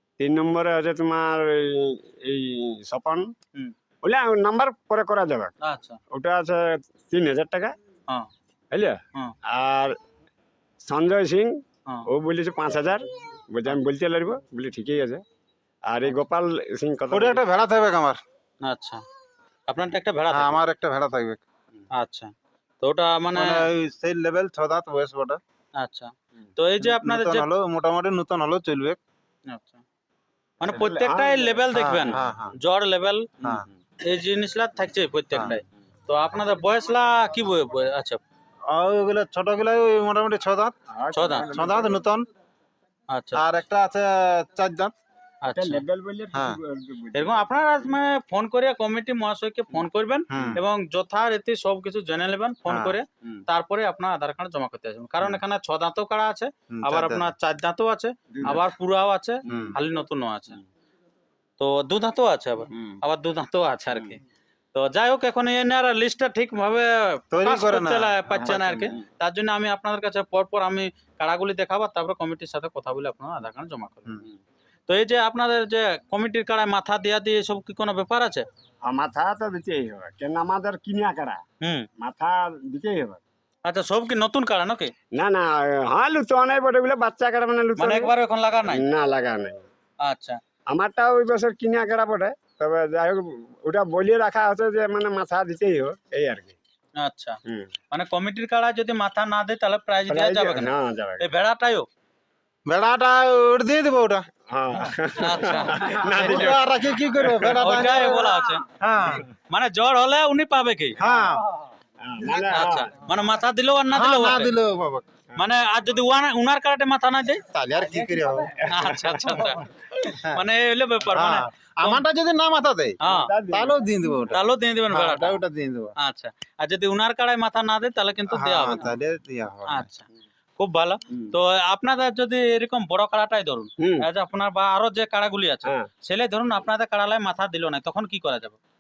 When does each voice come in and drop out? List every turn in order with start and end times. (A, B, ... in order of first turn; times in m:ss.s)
0:00.2-0:03.3 A
0:04.0-0:05.5 A
0:05.6-0:06.0 B
0:06.1-0:07.8 A
0:08.7-0:10.0 A
0:10.8-0:15.2 A
0:15.9-0:17.4 A
0:17.1-0:18.2 C
0:18.6-0:19.0 B
0:19.7-0:20.6 B
0:20.3-0:21.4 C
0:21.9-0:23.6 B
0:23.3-0:25.4 C
0:25.8-0:27.5 B
0:26.8-0:29.0 C
0:29.5-0:29.8 B
0:30.6-0:33.3 B
0:30.7-0:32.4 A
0:31.7-0:32.6 C
0:33.4-0:33.7 A
0:33.4-0:33.7 C
0:34.0-0:38.2 B
0:38.7-0:40.8 C
0:40.9-0:42.0 A
0:41.1-0:41.5 B
0:41.5-0:42.3 C
0:43.1-0:43.4 B
0:43.4-0:44.9 C
0:45.4-0:45.8 B
0:45.5-0:47.5 A
0:46.3-0:46.6 C
0:47.1-1:00.6 B
0:50.3-0:50.6 C
0:50.3-0:50.6 A
0:52.7-0:53.0 C
0:56.7-0:57.3 C
0:58.3-0:58.7 A
0:59.5-0:59.8 A
0:59.5-0:59.8 C
1:01.6-1:04.2 B
1:04.7-1:14.2 B
1:07.3-1:08.9 C
1:14.9-1:18.4 B
1:18.8-1:21.4 A
1:21.6-1:21.9 B
1:22.0-1:23.2 A
1:23.6-1:24.9 B
1:25.1-1:28.1 A
1:27.8-1:28.9 B
1:28.7-1:29.6 A
1:30.0-1:30.4 B
1:30.7-1:36.6 A
1:37.0-1:37.4 B
1:37.9-1:41.9 B
1:40.1-1:41.3 A
1:42.7-1:44.3 C
1:44.5-1:47.7 A
1:45.2-1:46.6 B
1:45.8-1:49.3 C
1:47.6-1:48.6 B
1:49.5-1:51.0 B
1:51.0-1:51.5 C
1:52.0-1:53.0 A
1:52.5-1:54.5 B
1:53.9-1:55.0 C
1:55.4-1:57.4 B
1:57.5-1:59.5 C
1:58.6-1:59.6 A
1:58.7-1:59.7 B
2:00.0-2:00.4 C
2:00.3-2:02.0 B
2:01.1-2:03.0 C
2:03.0-2:03.3 B
2:03.0-2:04.4 A
2:03.5-2:05.9 C
2:04.3-2:05.4 B
2:06.0-2:08.9 B
2:08.3-2:09.9 C
2:09.7-2:18.6 B
2:13.8-2:14.1 A